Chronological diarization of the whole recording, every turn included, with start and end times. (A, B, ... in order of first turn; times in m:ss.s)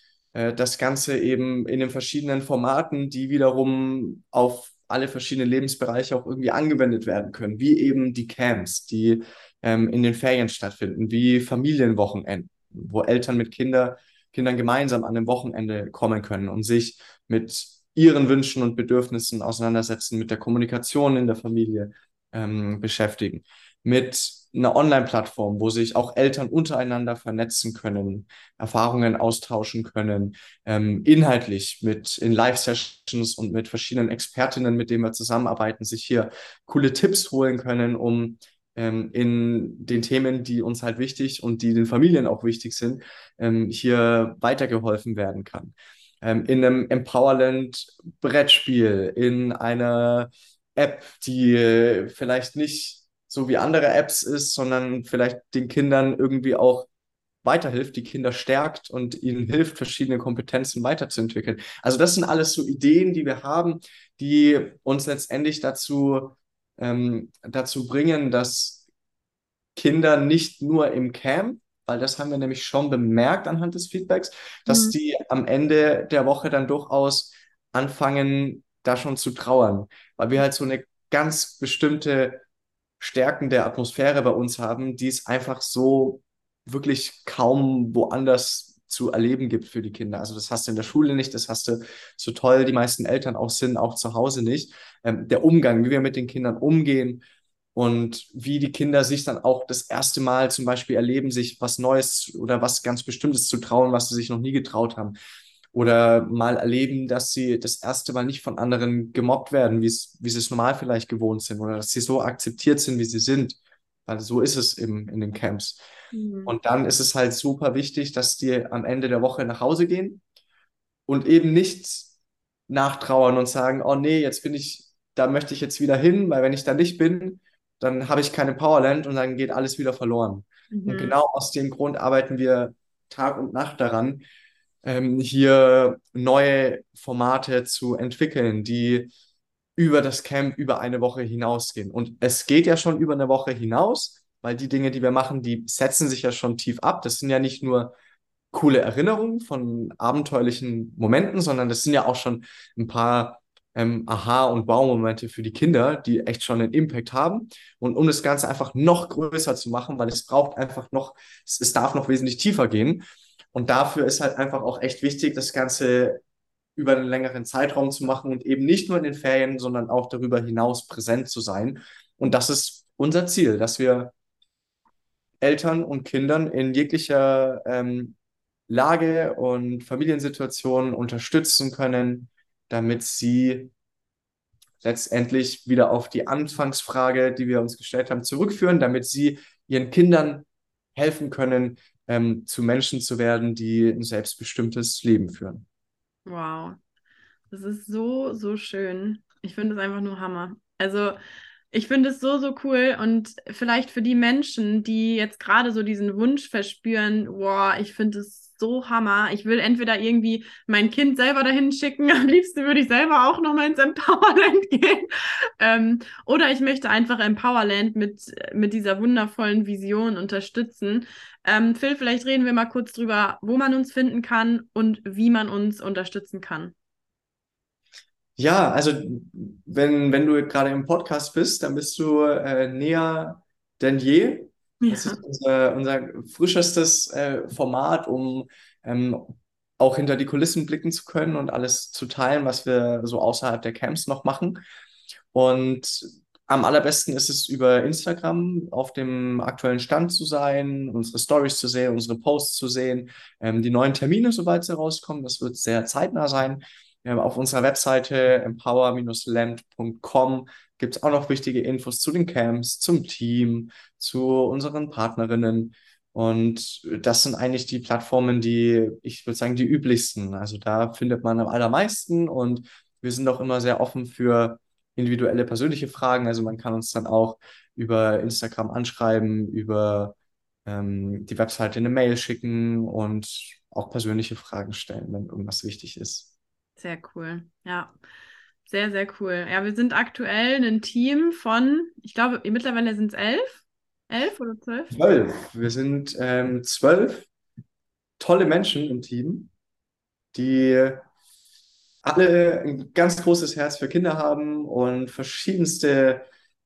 0:00.3-0:56.9 A
0:57.4-1:08.8 A
1:09.8-1:22.4 A
1:14.7-1:15.0 B
1:23.0-1:37.2 A
1:37.8-1:45.2 A
1:45.7-1:55.8 A
1:56.1-1:56.5 B
1:56.5-2:00.2 A
2:01.1-2:02.1 A
2:02.7-2:14.2 A
2:10.7-2:11.2 B
2:14.8-2:19.1 A
2:19.8-2:27.9 A
2:28.5-2:43.0 A
2:43.5-2:46.2 A
2:46.8-2:54.1 A
2:55.4-2:58.2 A
2:58.7-3:03.7 A
3:04.8-3:15.6 A
3:16.3-3:16.8 B
3:17.5-3:21.2 B
3:21.7-3:46.7 B
3:48.4-4:04.6 A
3:54.8-3:55.2 B
4:05.3-4:40.2 A
4:40.7-4:46.3 A
4:46.8-4:47.9 B
4:48.7-4:55.0 B
4:54.9-4:57.3 A
4:58.2-4:59.5 A
5:00.3-5:01.1 A
5:02.0-5:06.3 A